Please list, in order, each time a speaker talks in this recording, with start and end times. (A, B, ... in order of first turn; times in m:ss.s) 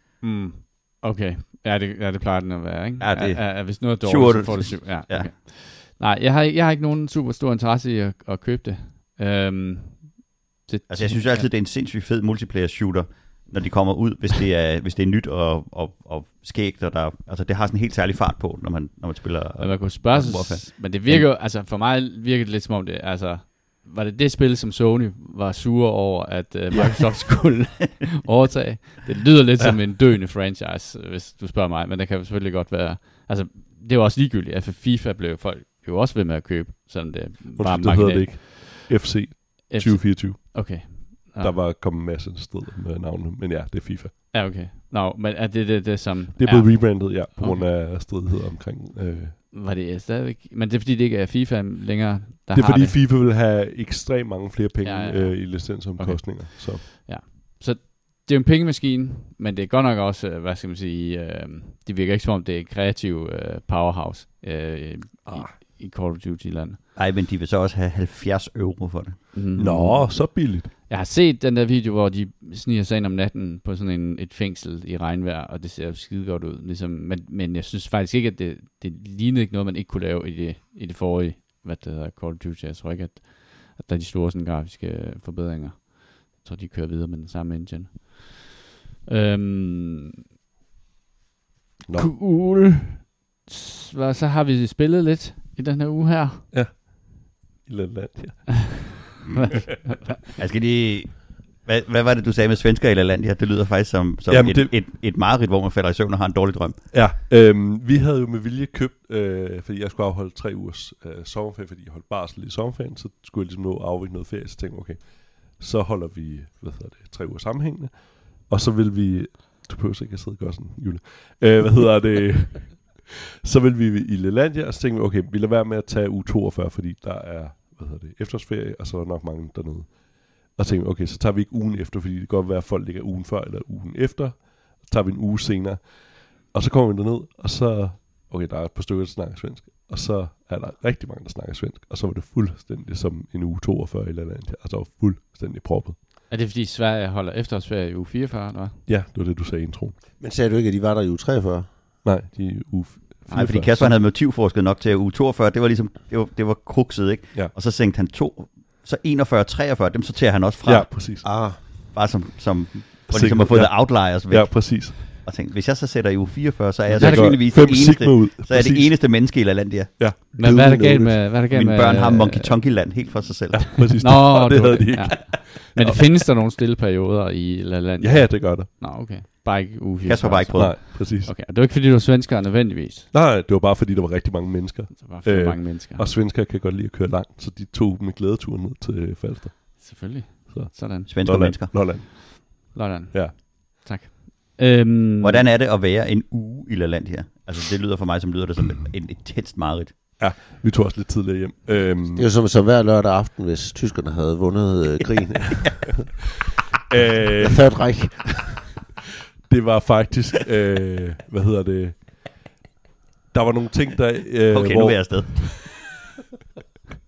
0:00.2-0:11.5 A
0:03.0-0:05.3 B
0:10.9-0:21.3 B
0:19.6-0:41.6 A
0:37.6-0:44.1 C
0:44.3-0:47.7 A
0:46.4-0:49.4 C
0:49.5-0:53.0 A
0:52.5-0:56.8 C
0:54.8-1:06.8 A
1:05.3-1:05.5 C
1:07.0-1:09.3 B
1:09.3-1:28.5 A
1:09.6-1:10.7 C
1:29.1-1:30.1 A
1:31.9-1:32.1 C
1:31.9-1:36.4 A
1:36.5-1:39.3 C
1:39.4-1:40.2 A
1:40.4-1:46.9 B
1:44.3-1:44.7 C
1:46.9-2:26.0 C
2:26.3-2:28.8 A
2:28.9-2:30.0 C
2:30.2-2:31.7 D
2:32.0-2:34.0 C
2:33.3-2:49.9 B
2:40.6-2:41.3 C
2:41.2-2:41.6 D
2:43.1-2:45.2 C
2:46.9-2:49.0 C
2:47.0-2:47.4 A
2:50.3-2:51.2 D
2:50.4-2:52.6 A
2:51.5-2:54.0 B
2:53.7-2:56.0 C
2:54.0-3:03.1 A
2:58.0-2:58.7 C
3:00.0-3:00.8 B
3:00.6-3:01.3 C
3:03.1-3:13.4 C
3:04.9-3:06.1 A
3:09.8-3:11.6 A
3:11.1-3:12.0 B
3:12.7-3:15.5 A
3:15.2-3:20.0 B
3:20.2-3:22.3 C
3:22.1-3:26.0 D
3:26.9-3:27.7 C
3:27.4-3:28.7 D
3:29.5-3:32.4 C
3:33.3-3:35.8 C
3:34.5-3:36.0 B